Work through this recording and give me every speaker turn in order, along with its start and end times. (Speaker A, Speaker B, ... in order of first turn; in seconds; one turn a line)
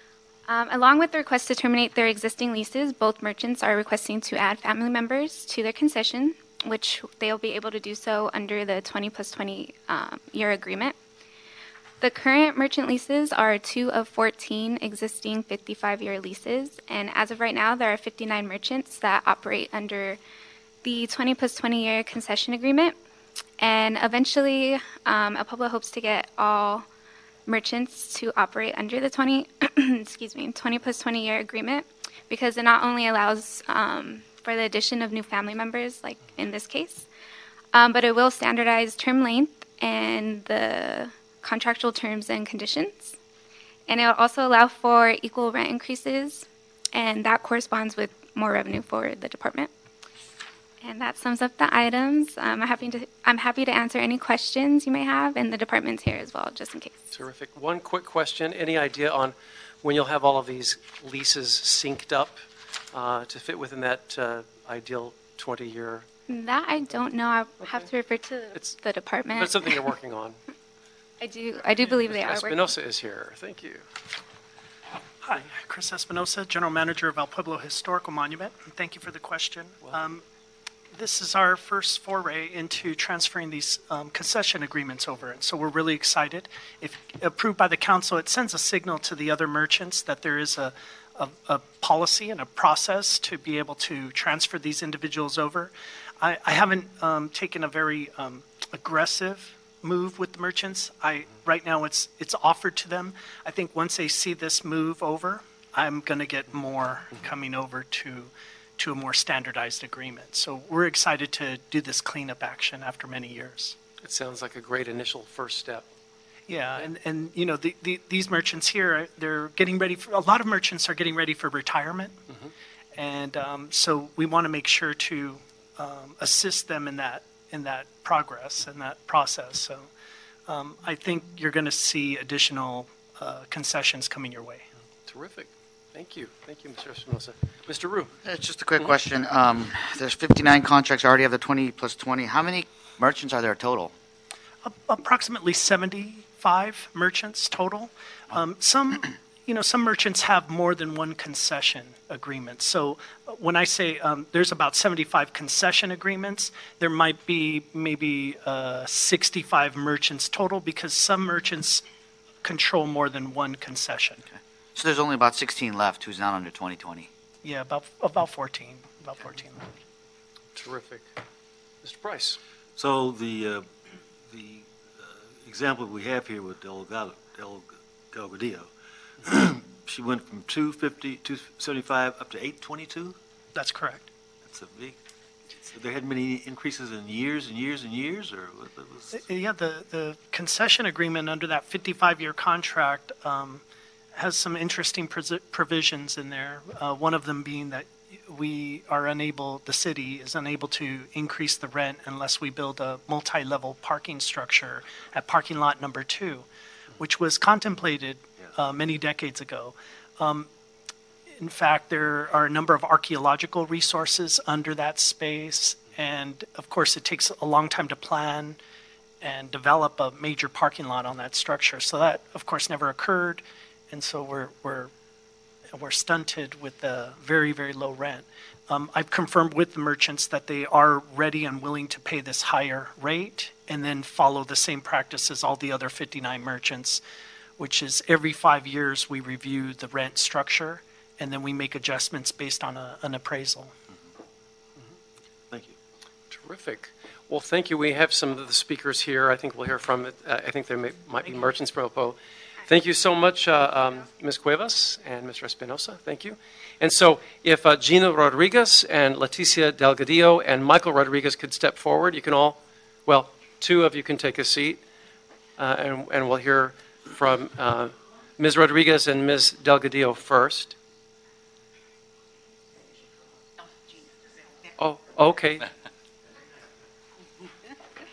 Speaker A: 0.5-10.9
Speaker A: 12.0-20.2
Speaker A: 20.8-22.9
Speaker A: 23.6-26.9
Speaker A: 27.4-37.1
Speaker A: 37.7-43.2
Speaker A: 43.9-49.7
Speaker A: 50.8-57.0
Speaker B: 57.1-66.1
Speaker A: 66.3-69.9
Speaker B: 69.3-70.4
Speaker A: 71.2-72.7
Speaker B: 71.9-73.8
Speaker C: 75.2-80.2
Speaker C: 80.9-113.8
Speaker B: 114.0-115.8
Speaker C: 116.5-122.2
Speaker C: 123.0-129.9
Speaker C: 130.5-134.7
Speaker B: 135.1-138.1
Speaker D: 138.2-143.9
Speaker C: 144.6-161.8
Speaker C: 162.4-164.2
Speaker D: 164.3-167.1
Speaker C: 167.4-169.6
Speaker B: 170.5-171.1
Speaker B: 171.8-172.4
Speaker E: 172.8-173.7
Speaker E: 174.3-178.7
Speaker E: 179.2-183.2
Speaker C: 183.5-184.1
Speaker E: 184.4-185.0
Speaker E: 185.7-189.2
Speaker C: 189.1-193.6
Speaker C: 194.2-210.5
Speaker C: 211.4-218.6
Speaker C: 219.2-224.9
Speaker C: 225.7-237.0
Speaker C: 237.6-243.7
Speaker B: 246.3-264.8
Speaker C: 251.2-251.5
Speaker B: 265.6-270.8
Speaker B: 274.8-275.7